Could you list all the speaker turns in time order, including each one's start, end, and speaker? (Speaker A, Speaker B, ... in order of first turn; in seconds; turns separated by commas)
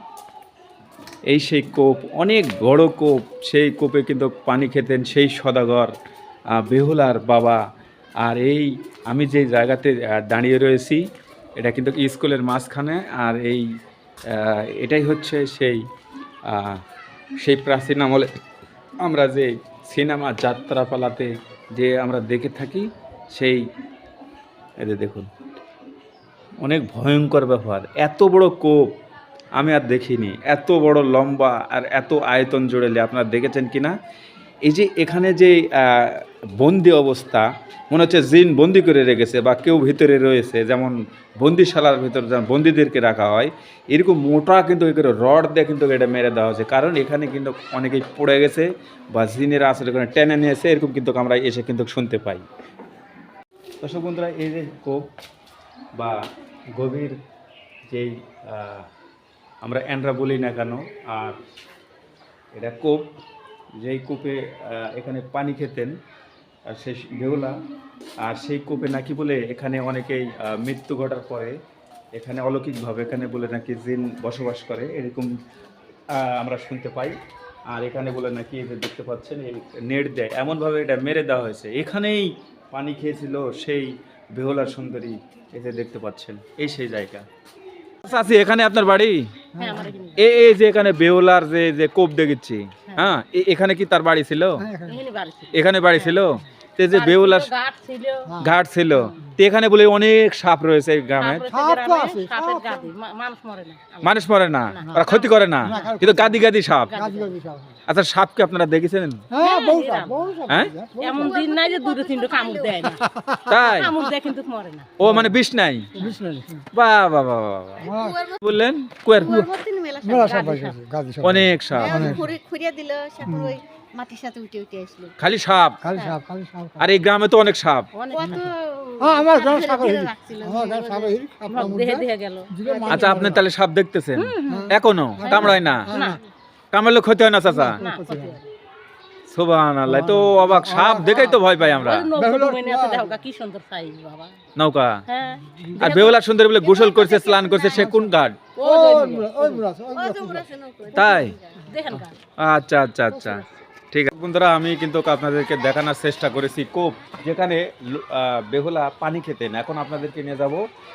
Speaker A: 1.3-6.0, Speaker A: 6.5-7.6, Speaker A: 8.2-11.1, Speaker A: 11.6-13.7, Speaker A: 14.3-15.8, Speaker A: 16.5-16.8, Speaker A: 17.4-18.3, Speaker A: 19.0-23.7, Speaker A: 24.8-25.3, Speaker A: 26.6-28.9, Speaker A: 29.6-33.9, Speaker A: 34.6-52.5, Speaker A: 53.8-55.0, Speaker A: 56.0-56.2, Speaker A: 56.8-57.1, Speaker A: 57.9-58.9, Speaker A: 59.6-61.4, Speaker A: 62.5-63.0, Speaker A: 63.8-66.0, Speaker A: 66.7-67.6, Speaker A: 68.2-71.6, Speaker A: 72.2-75.3, Speaker A: 76.1-77.2, Speaker A: 77.7-87.2, Speaker A: 88.0-89.3, Speaker B: 89.5-90.0, Speaker C: 89.6-90.2, Speaker A: 90.2-94.6, Speaker C: 92.9-93.1, Speaker B: 94.6-95.0, Speaker C: 94.9-96.2, Speaker A: 95.5-97.5, Speaker C: 96.9-98.3, Speaker B: 98.3-98.6, Speaker A: 98.4-101.5, Speaker C: 101.2-105.9, Speaker B: 101.5-102.9, Speaker A: 104.0-107.0, Speaker B: 105.6-107.8, Speaker C: 106.9-107.3, Speaker A: 107.9-109.2, Speaker B: 109.3-111.4, Speaker C: 109.4-110.3, Speaker C: 111.0-113.0, Speaker D: 111.3-112.8, Speaker B: 112.8-113.7, Speaker A: 113.5-114.0, Speaker C: 113.6-114.9, Speaker A: 115.0-116.1, Speaker B: 115.0-115.4, Speaker B: 115.9-116.7, Speaker A: 116.7-119.4, Speaker B: 117.8-118.3, Speaker D: 117.9-118.4, Speaker B: 119.2-119.5, Speaker D: 119.2-120.5, Speaker B: 120.0-122.4, Speaker C: 120.2-120.8, Speaker A: 121.2-122.2, Speaker D: 121.8-125.1, Speaker B: 123.2-123.6, Speaker A: 125.2-125.8, Speaker B: 125.8-126.9, Speaker A: 126.8-127.9, Speaker C: 128.0-128.4, Speaker D: 128.1-131.1, Speaker B: 128.2-133.5, Speaker C: 131.5-132.5, Speaker A: 132.9-135.9, Speaker C: 134.2-134.7, Speaker B: 134.5-136.2, Speaker C: 135.2-136.2, Speaker A: 136.7-137.8, Speaker B: 137.5-138.4, Speaker C: 137.7-138.4, Speaker A: 139.3-142.1, Speaker B: 139.8-141.6, Speaker C: 141.7-144.3, Speaker B: 142.1-143.2, Speaker A: 144.6-145.0, Speaker C: 145.1-146.2, Speaker B: 145.4-146.0, Speaker A: 145.8-148.4, Speaker D: 146.7-147.8, Speaker C: 147.4-147.9, Speaker B: 147.7-150.5, Speaker C: 148.6-149.6, Speaker D: 150.0-151.6, Speaker A: 150.9-151.3, Speaker B: 151.6-152.1, Speaker C: 151.7-152.2, Speaker A: 152.4-160.6